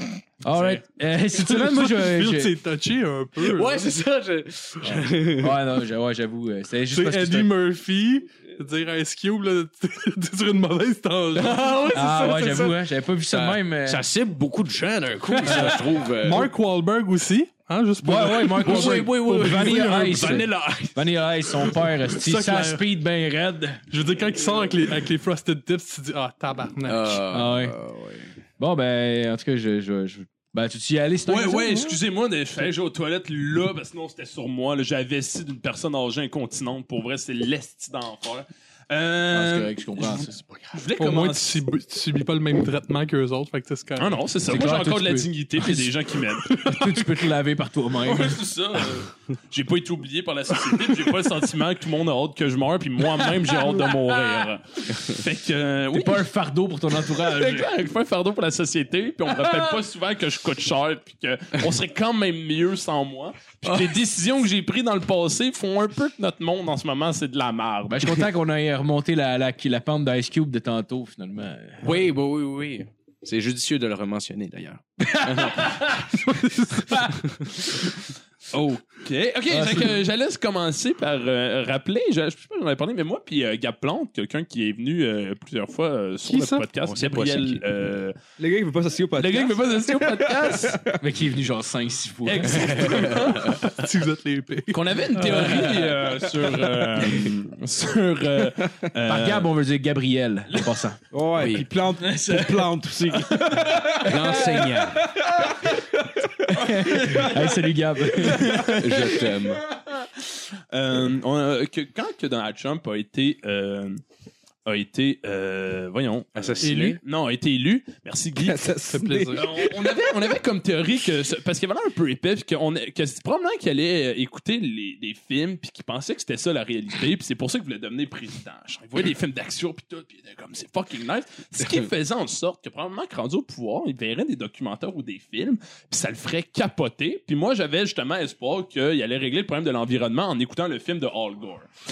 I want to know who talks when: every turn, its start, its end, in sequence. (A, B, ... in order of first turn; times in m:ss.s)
0:00.4-0:02.5 A
0:01.4-0:03.9 B
0:03.4-0:05.6 C
0:04.8-0:07.5 A
0:06.9-0:11.8 B
0:11.3-0:16.5 C
0:11.9-0:14.0 A
0:15.3-0:15.8 A
0:15.5-0:20.4 B
0:18.0-0:23.8 A
0:18.6-0:21.1 C
0:22.1-0:22.8 B
0:23.9-0:27.2 B
0:26.8-0:28.3 C
0:27.3-0:27.7 A
0:28.6-0:32.0 A
0:31.2-0:41.6 D
0:39.3-0:40.4 A
0:41.0-0:44.2 B
0:44.0-0:46.6 D
0:44.5-0:45.9 A
0:46.5-0:48.4 A
0:46.6-0:47.0 B
0:48.0-0:56.2 D
0:55.9-0:57.7 A
0:57.1-1:08.2 D
1:07.9-1:12.0 A
1:11.8-1:15.9 C
1:15.2-1:15.8 A
1:16.2-1:16.9 B
1:18.5-1:28.2 D
1:19.5-1:20.0 A
1:26.2-1:26.6 B
1:26.8-1:27.6 C
1:28.4-1:31.0 E
1:29.2-1:30.8 D
1:31.0-1:33.1 A
1:32.2-1:33.7 D
1:32.6-1:33.6 C
1:33.5-1:35.7 B
1:34.7-1:39.5 D
1:35.2-1:35.8 A
1:35.4-1:35.9 C
1:37.0-1:37.3 C
1:39.1-1:44.9 A
1:41.1-1:48.7 E
1:41.4-1:41.7 C
1:44.0-1:45.1 C
1:46.5-1:48.7 A
1:48.3-1:48.8 D
1:48.6-1:49.6 C
1:49.9-1:54.0 D
1:54.6-2:21.7 D
1:56.3-1:57.0 C
1:56.6-1:57.0 B
1:58.4-1:59.6 E
1:58.9-1:59.4 B